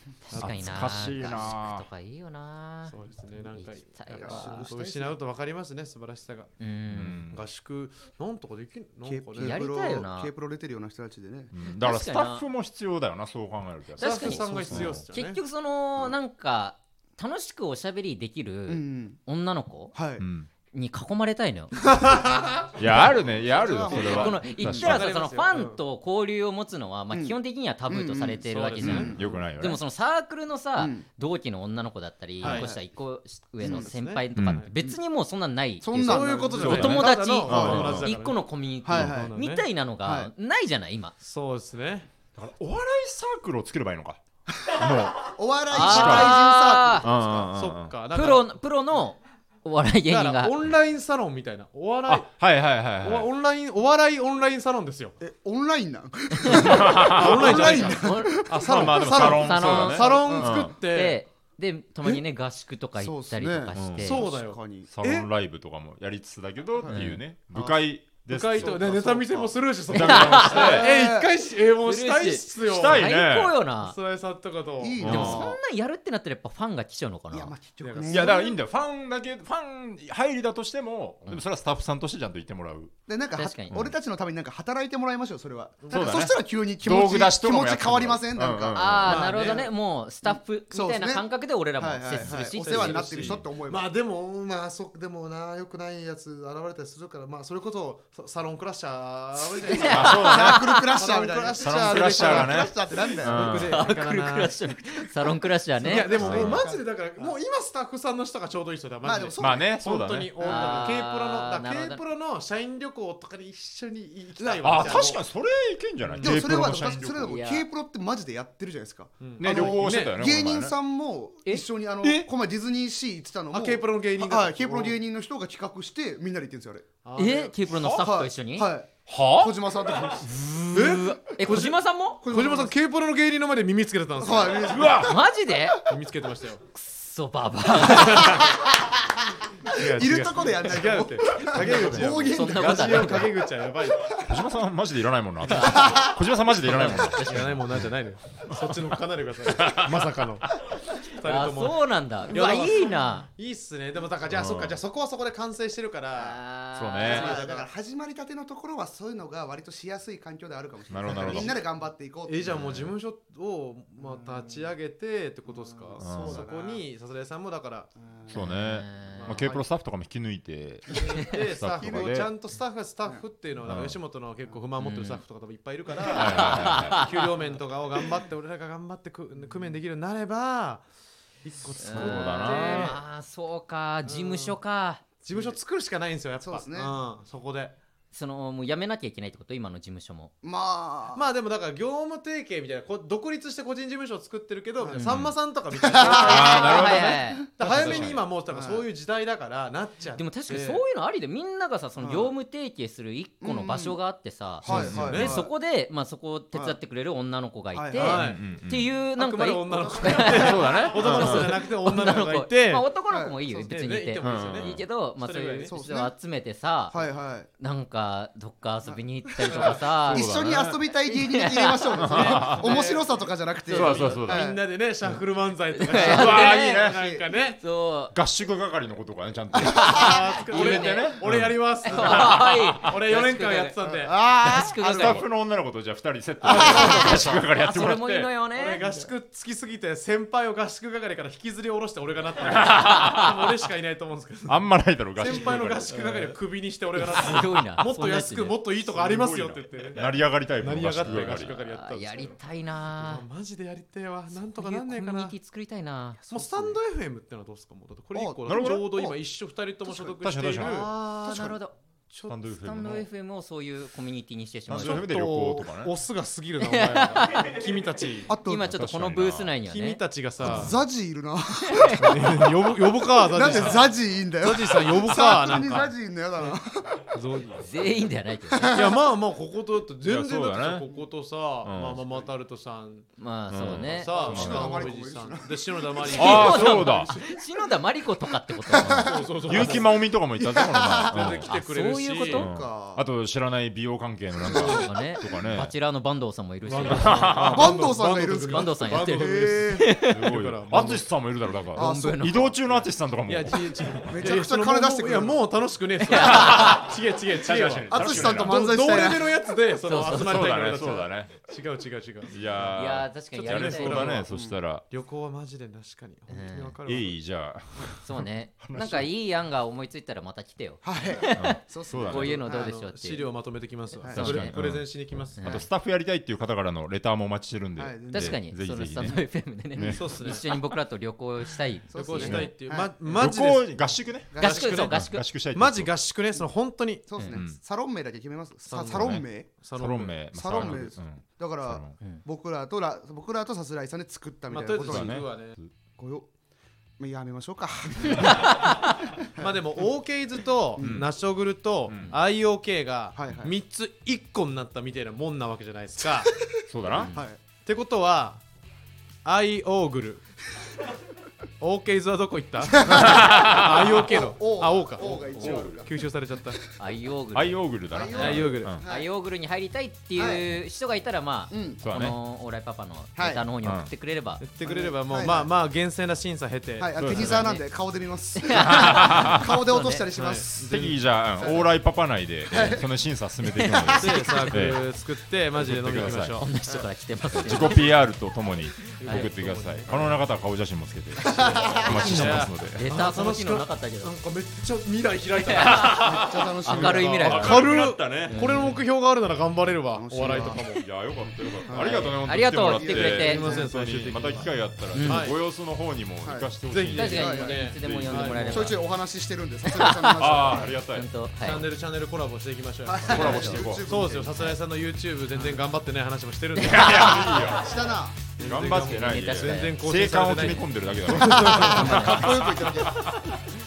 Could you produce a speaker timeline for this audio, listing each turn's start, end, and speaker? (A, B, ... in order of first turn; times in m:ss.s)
0:00.3-0:04.7 A
0:00.3-0:01.8 B
0:02.9-0:06.5 C
0:04.1-0:05.2 D
0:06.6-0:07.2 A
0:06.9-0:07.4 B
0:07.3-0:09.6 C
0:09.0-0:11.5 D
0:09.4-0:10.3 A
0:11.5-0:15.0 B
0:11.6-0:12.4 A
0:14.0-0:19.9 A
0:14.0-0:15.4 C
0:18.7-0:19.2 D
0:19.9-0:20.2 D
0:20.2-0:20.5 B
0:20.7-0:21.8 A
0:21.9-0:24.6 D
0:22.8-0:25.1 B
0:23.8-0:25.8 C
0:23.9-0:41.1 A
0:27.1-0:29.3 D
0:28.5-0:29.4 C
0:28.8-0:29.8 B
0:30.8-0:31.0 D
0:32.4-0:32.7 C
0:32.4-0:32.8 D
0:33.6-0:33.9 D
0:33.6-0:34.7 C
0:34.4-0:34.6 B
0:35.8-0:38.0 D
0:36.0-0:38.4 C
0:36.6-0:38.1 B
0:38.8-0:39.4 D
0:38.9-0:39.6 C
0:40.0-0:40.3 D
0:41.2-0:42.1 C
0:42.4-0:46.5 B
0:45.2-0:47.5 D
0:45.7-0:47.0 A
0:47.0-0:47.9 B
0:47.5-0:48.4 C
0:48.1-0:50.6 A
0:50.1-0:52.4 C
0:52.1-0:53.3 B
0:53.0-0:55.2 C
0:55.2-1:00.7 D
0:56.4-0:56.7 A
0:56.5-0:57.8 B
0:57.0-1:01.2 C
0:57.4-0:58.4 A
0:58.5-1:00.7 B
0:59.0-1:04.2 A
1:03.0-1:04.9 D
1:03.8-1:04.2 B
1:04.0-1:05.3 C
1:04.9-1:09.2 B
1:06.8-1:07.8 D
1:06.8-1:07.2 A
1:08.3-1:13.1 C
1:08.6-1:09.2 A
1:09.9-1:10.9 B
1:09.9-1:10.9 A
1:10.4-1:11.3 D
1:11.8-1:14.0 A
1:12.6-1:13.5 B
1:13.8-1:15.4 C
1:14.8-1:15.6 D
1:15.0-1:15.4 B
1:15.0-1:17.5 A
1:17.3-1:18.5 D
1:17.8-1:18.4 C
1:18.0-1:22.9 B
1:23.1-1:29.6 D
1:23.4-1:23.8 A
1:25.8-1:26.2 C
1:25.9-1:29.2 B
1:28.7-1:33.4 A
1:29.0-1:29.7 C
1:30.2-1:31.2 D
1:31.8-1:33.9 D
1:32.6-1:44.5 C
1:33.2-1:33.4 B
1:39.6-1:43.5 D
1:39.7-1:40.8 A
1:39.9-1:40.6 B
1:41.6-1:43.8 B
1:43.4-1:46.2 A
1:45.8-1:47.3 D
1:45.8-1:55.2 C
1:46.2-1:46.6 B
1:49.0-1:49.8 D
1:49.4-1:50.3 B
1:50.4-1:50.9 D
1:50.4-1:52.0 A
1:54.4-1:55.2 D
1:54.6-1:57.4 B
1:56.0-1:56.3 C
1:56.2-2:06.8 D
1:57.2-1:57.6 A
1:59.2-2:00.2 C
1:59.4-2:00.7 B
2:01.4-2:02.3 A
2:03.5-2:05.0 C
2:07.0-2:07.6 C
2:07.2-2:08.7 A
2:07.8-2:08.0 B
2:08.0-2:10.4 D
2:09.1-2:09.5 B
2:10.2-2:12.2 A
2:10.7-2:14.9 C
2:12.2-2:12.7 D
2:14.2-2:15.2 D
2:14.7-2:15.2 B
2:15.0-2:15.8 A
2:15.8-2:16.6 C
2:16.7-2:18.5 A
2:17.8-2:18.5 C
2:18.4-2:18.6 D
2:19.7-2:24.1 C
2:19.7-2:23.4 D
2:21.3-2:23.3 A
2:24.0-2:24.4 D
2:24.2-2:27.8 B
2:25.5-2:26.0 A
2:25.5-2:26.2 D
2:26.6-2:27.6 A
2:26.7-2:36.4 C
2:28.4-2:28.8 B
2:29.4-2:30.1 B
2:31.2-2:33.3 A
2:34.3-2:34.8 B
2:36.1-2:37.4 A
2:36.7-2:37.3 B
2:37.0-2:37.7 C
2:37.0-2:42.8 D
2:40.9-2:41.5 B
2:41.1-2:41.5 C
2:42.3-2:47.9 C
2:44.0-2:44.6 D
2:45.5-2:46.8 D
2:46.0-2:46.4 B
2:48.0-2:48.4 D
2:48.3-2:52.3 B
2:48.4-2:49.4 A
2:49.1-2:49.6 C
2:50.9-3:00.8 C
2:51.8-2:52.3 D
2:53.7-2:54.0 B
2:54.8-2:55.2 A
2:56.0-2:57.3 A
2:56.1-2:57.0 B
3:01.4-3:03.0 C
3:01.8-3:05.0 A
3:01.9-3:03.0 B
3:04.0-3:04.6 C
3:05.2-3:07.7 C
3:06.4-3:06.9 D
3:08.1-3:10.3 A
3:10.4-3:11.2 D
3:11.1-3:20.8 C
3:14.9-3:15.3 A
3:15.8-3:18.8 D
3:16.0-3:17.4 A
3:16.1-3:18.2 B
3:20.2-3:37.0 A
3:22.0-3:22.3 D
3:23.4-3:24.0 D
3:24.6-3:25.5 D
3:24.6-3:25.3 B
3:24.6-3:25.4 C
3:27.7-3:28.4 D
3:27.9-3:28.4 C
3:28.2-3:28.9 B
3:29.1-3:32.8 C
3:30.0-3:30.4 D
3:30.3-3:31.5 B
3:33.1-3:33.4 D
3:33.5-3:35.7 C
3:34.2-3:34.8 B
3:35.6-3:36.1 D
3:36.9-3:37.5 D
3:37.6-3:42.2 A
3:38.8-3:44.6 D
3:39.5-3:39.9 C
3:40.0-3:40.8 B
3:42.0-3:43.1 C
3:42.0-3:42.8 B
3:43.6-3:44.5 B
3:43.7-3:44.2 A
3:43.7-3:47.6 C
3:45.7-3:46.8 A
3:45.9-3:47.2 D
3:45.9-3:47.0 B
3:47.6-3:48.1 A
3:48.1-3:51.6 B
3:49.6-3:50.2 D
3:49.6-3:51.2 A
3:49.8-3:54.1 C
3:51.8-3:53.8 A
3:51.9-3:52.5 D
3:52.1-3:52.4 B
3:53.8-3:55.2 D
3:54.4-3:55.2 A
3:54.8-3:58.3 B
3:56.4-3:57.4 D
3:56.5-3:59.0 A
3:56.8-3:57.2 C
3:58.4-4:12.4 C
4:02.5-4:03.3 B
4:04.5-4:06.0 B
4:05.9-4:06.3 A
4:07.0-4:08.6 A
4:08.8-4:11.6 B
4:11.0-4:13.2 A
4:13.0-4:15.3 C
4:14.3-4:16.2 A
4:16.3-4:21.6 C
4:16.3-4:16.8 D
4:18.1-4:19.2 D
4:18.4-4:19.0 B
4:19.8-4:20.9 D
4:20.2-4:20.9 B
4:21.0-4:21.7 A
4:22.3-4:23.1 B
4:22.5-4:25.1 A
4:24.7-4:25.9 B
4:24.7-4:28.3 C
4:26.6-4:27.5 A
4:28.3-4:28.7 D
4:28.4-4:30.0 A
4:28.7-4:29.5 B
4:29.6-4:30.7 C
4:30.4-4:32.5 D
4:30.4-4:30.7 B
4:31.7-4:32.0 A
4:32.0-4:36.6 C
4:33.2-4:37.2 D
4:37.1-4:37.7 C
4:37.6-4:38.8 A
4:38.5-4:39.0 D
4:38.7-4:43.1 C
4:40.0-4:40.8 B
4:41.6-4:42.0 B
4:43.2-4:44.5 A
4:43.5-4:44.9 B
4:43.6-4:47.2 C
4:44.1-4:47.4 D
4:46.1-4:49.1 A
4:46.1-4:47.1 B
4:48.3-4:51.4 D
4:49.0-4:49.9 C
4:49.5-4:51.5 B
4:51.1-4:52.4 C
4:51.4-4:52.5 A
4:52.3-4:53.0 D
4:52.3-4:55.7 B
4:54.4-4:55.4 D
4:54.5-5:00.2 A
4:56.6-5:01.0 C
4:56.8-4:57.6 B
4:57.5-4:59.9 D
5:00.1-5:04.1 B
5:01.7-5:02.7 D
5:01.7-5:02.5 A
5:03.3-5:12.7 C
5:04.1-5:05.4 D
5:06.0-5:06.9 A
5:06.1-5:08.8 B
5:07.9-5:09.4 D
5:09.8-5:10.5 A
5:10.1-5:11.4 B
5:12.3-5:14.8 B
5:12.6-5:14.1 A
5:13.3-5:14.3 C
5:14.3-5:14.6 D
5:14.9-5:17.2 C
5:16.3-5:16.8 A
5:16.8-5:19.1 B
5:18.0-5:23.2 A
5:20.8-5:22.8 D
5:21.3-5:22.4 B
5:22.4-5:25.4 C
5:24.1-5:24.7 A
5:24.1-5:29.2 B
5:25.3-5:25.6 A
5:27.8-5:28.4 D
5:28.1-5:32.5 A
5:29.8-5:30.0 B
5:29.8-5:30.1 D
5:29.9-5:30.6 C
5:31.9-5:33.0 D
5:31.9-5:37.1 C
5:32.2-5:32.5 B
5:33.1-5:35.9 B
5:34.3-5:34.8 D
5:34.4-5:35.2 A
5:37.1-5:39.5 D
5:37.1-5:37.4 A
5:37.3-5:37.6 B
5:38.7-5:40.7 C
5:38.8-5:42.0 B
5:40.3-5:45.2 D
5:44.5-5:45.6 C
5:44.8-5:45.7 B
5:46.0-5:46.3 D
5:47.0-5:48.7 D
5:48.3-5:49.0 A
5:49.3-5:49.8 D
5:49.4-5:56.4 C
5:50.8-5:51.0 D
5:50.8-5:51.1 B
5:51.9-5:52.2 B
5:53.2-5:53.6 D
5:56.7-5:57.1 B
5:56.8-5:57.3 A
5:57.1-5:57.4 D
5:57.6-5:58.4 C
5:59.2-6:00.2 C
6:01.6-6:06.6 C
6:02.7-6:05.9 D
6:02.8-6:04.1 B
6:05.3-6:05.8 B
6:06.8-6:14.4 A
6:07.3-6:08.8 B
6:07.9-6:09.1 D
6:08.1-6:08.7 C
6:10.2-6:10.4 D
6:11.5-6:11.8 D
6:11.8-6:12.2 B
6:13.2-6:13.4 D
6:13.6-6:13.9 B
6:14.4-6:17.4 C
6:14.6-6:15.5 D
6:16.8-6:20.5 D
6:17.0-6:17.4 B
6:17.0-6:17.7 A
6:18.4-6:20.1 A
6:18.6-6:19.4 B
6:20.1-6:21.6 C
6:20.5-6:24.9 B
6:22.5-6:22.8 D
6:23.5-6:24.6 A
6:24.0-6:26.5 C
6:25.6-6:26.4 B
6:26.3-6:28.0 A
6:27.4-6:32.8 B
6:29.0-6:29.3 A
6:29.0-6:30.2 C
6:31.2-6:32.3 D
6:31.3-6:40.8 C
6:31.9-6:34.1 A
6:35.4-6:37.7 A
6:35.6-6:36.4 B
6:36.0-6:37.2 D
6:37.2-6:38.4 B
6:38.3-6:38.8 A
6:39.9-6:40.7 D
6:40.8-6:48.6 B
6:41.2-6:43.7 D
6:41.8-6:43.4 A
6:43.1-6:45.4 C
6:44.9-6:45.3 A
6:46.2-6:46.5 D
6:46.6-6:48.7 C
6:47.0-6:48.8 A
6:47.1-6:47.6 D
6:48.5-6:50.7 D
6:49.6-6:51.6 A
6:50.0-6:51.0 B
6:51.4-6:57.5 C
6:52.8-6:54.5 D
6:53.1-6:53.8 B
6:53.1-6:53.6 A
6:56.6-6:57.7 B
6:56.6-6:57.5 A
6:57.3-6:58.3 D
6:58.4-7:02.2 C
6:58.4-7:03.4 B
6:58.7-6:59.8 A
7:01.1-7:03.1 D
7:01.1-7:02.6 A